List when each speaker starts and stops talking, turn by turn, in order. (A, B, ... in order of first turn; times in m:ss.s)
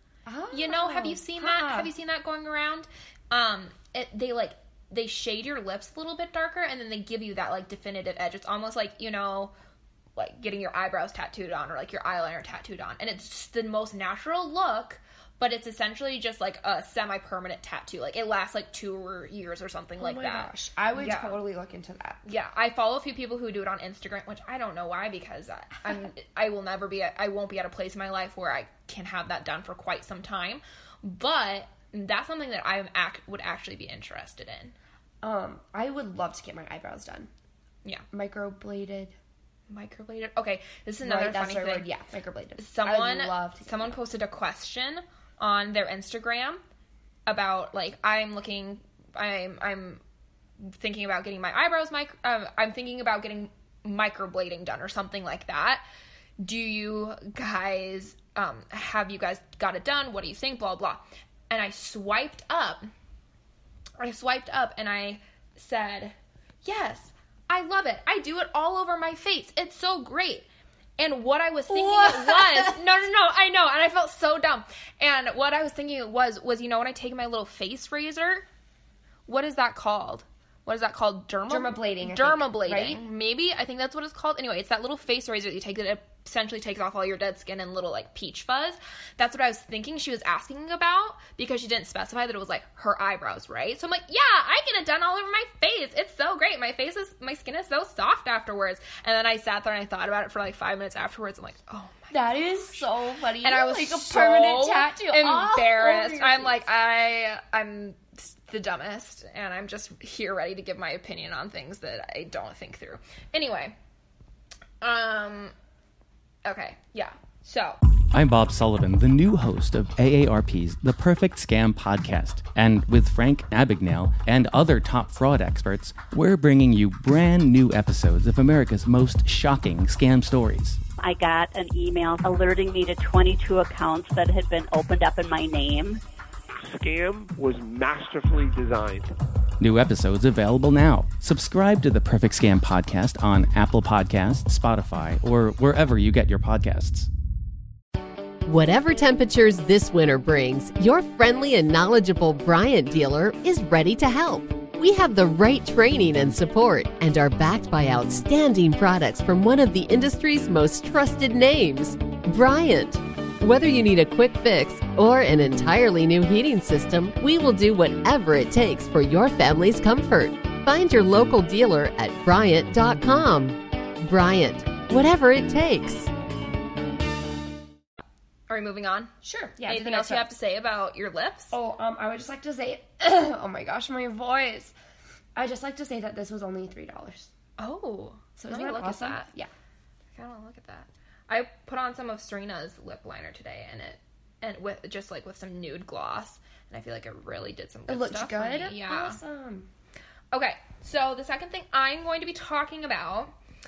0:00.2-0:01.9 A
0:00.5-0:09.5 B
0:10.2-0:21.3 B
0:20.0-0:22.2 A
0:22.2-0:34.7 B
0:35.2-0:37.3 A
0:38.1-0:39.2 A
0:39.7-0:41.9 B
0:41.0-0:44.0 A
0:42.6-0:46.6 B
0:47.2-0:50.0 B
0:50.6-0:55.8 B
0:56.4-1:02.9 B
1:04.0-1:10.5 B
1:11.0-1:18.4 B
1:11.7-1:12.8 A
1:19.3-1:42.4 B
1:21.5-1:23.0 A
1:42.1-1:46.6 A
1:43.4-1:53.7 B
1:54.8-1:55.5 B
1:56.4-1:57.8 B
1:58.1-2:10.8 C
2:11.0-2:16.0 D
2:16.6-2:19.1 E
2:19.6-2:27.1 C
2:28.4-2:56.1 F
2:58.5-2:59.1 B
2:59.2-3:00.3 A
2:59.6-3:01.5 B
3:01.5-3:04.7 A
3:05.3-3:07.3 A
3:07.6-3:09.3 B
3:08.4-3:09.5 A
3:10.1-3:19.2 B
3:17.9-3:19.7 A
3:20.3-3:23.3 B